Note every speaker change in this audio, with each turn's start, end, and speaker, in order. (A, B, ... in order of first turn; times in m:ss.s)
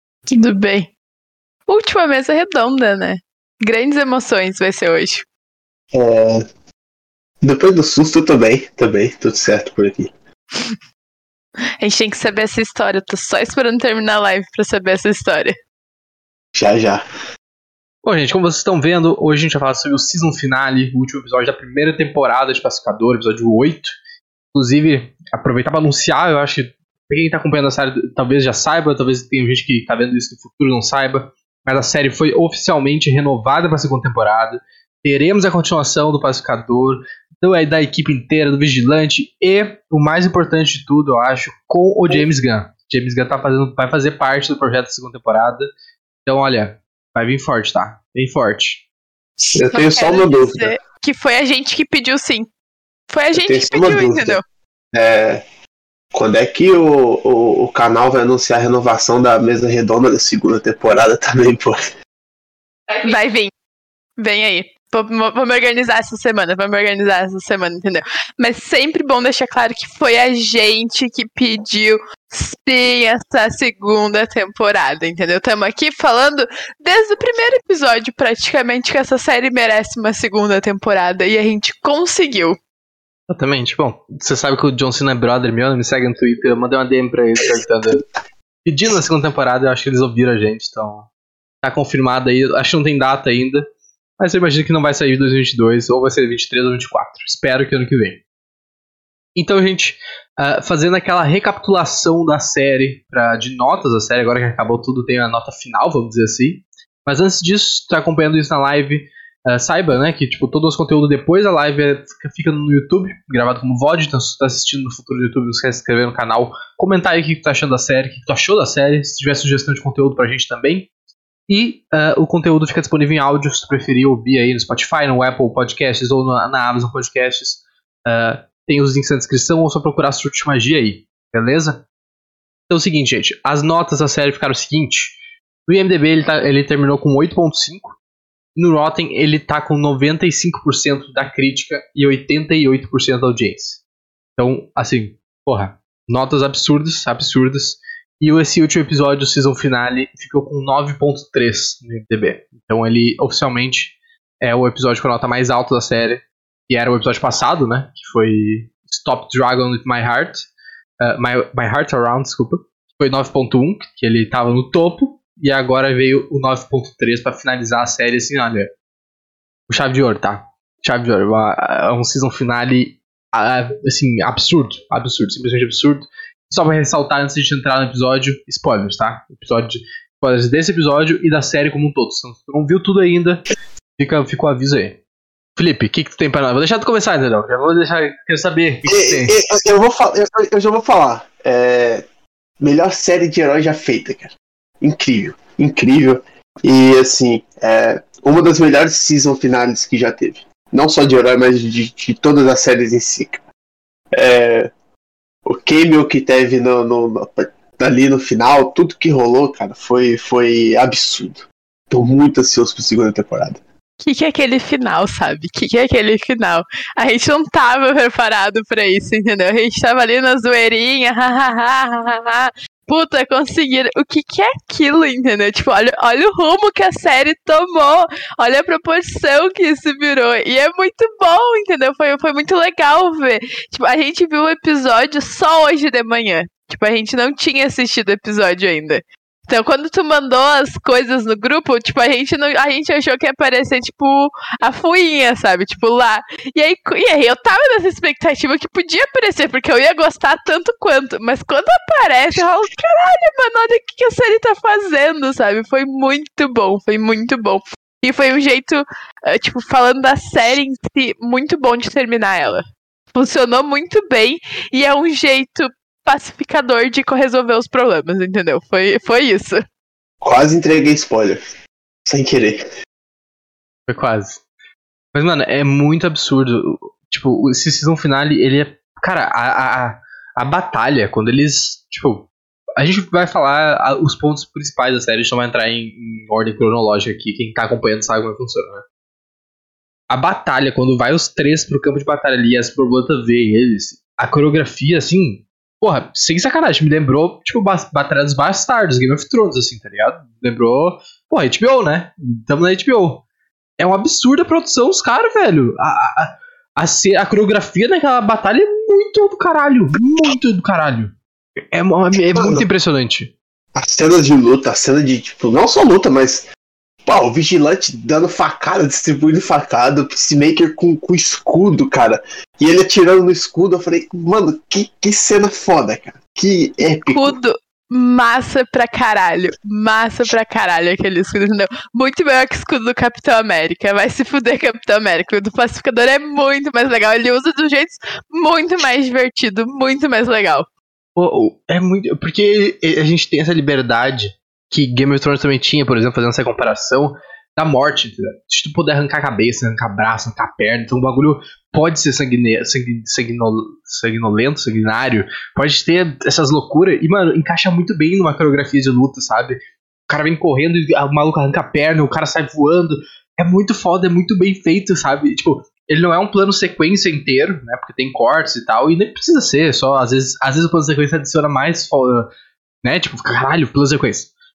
0:00.3-0:00.9 A
0:01.7-0:05.2 A
0:05.9-0:06.4 B
0:07.4-0:10.1 B
0:11.8-0:15.6 A
0:16.5-0:17.0 B
0:18.0-0:23.9 C
0:24.5-0:45.6 C
0:46.2-0:48.8 C
0:49.4-0:52.5 A
0:49.6-0:50.7 B
0:53.1-0:54.4 A
0:53.3-0:54.4 B
0:54.9-0:55.4 B
0:56.1-1:01.8 B
1:03.0-1:03.5 A
1:04.2-1:22.6 A
1:23.3-1:28.0 C
1:28.6-1:31.1 C
1:31.6-1:33.6 C
1:34.2-1:38.2 C
1:39.4-2:00.9 C
2:01.5-2:11.8 C
2:12.7-2:18.0 C
2:18.6-2:23.8 C
2:24.4-2:40.5 C
2:41.0-2:48.7 C
2:49.7-3:03.4 C
3:04.0-3:05.0 C
3:05.6-3:09.3 C
3:08.9-3:12.0 B
3:12.6-3:23.4 B
3:24.1-3:24.7 B
3:25.4-3:33.6 B
3:34.0-4:29.6 A
4:30.2-4:31.4 B
4:32.0-4:32.6 B
4:33.9-4:34.4 C
4:35.1-4:48.8 C
4:50.1-5:03.2 C
5:03.8-5:11.2 C
5:11.7-5:13.3 C
5:12.3-5:12.6 B
5:13.8-5:16.5 B
5:17.0-5:27.4 B
5:27.1-5:40.7 A
5:41.2-5:59.6 C
6:00.1-6:12.3 C
6:12.8-6:14.3 C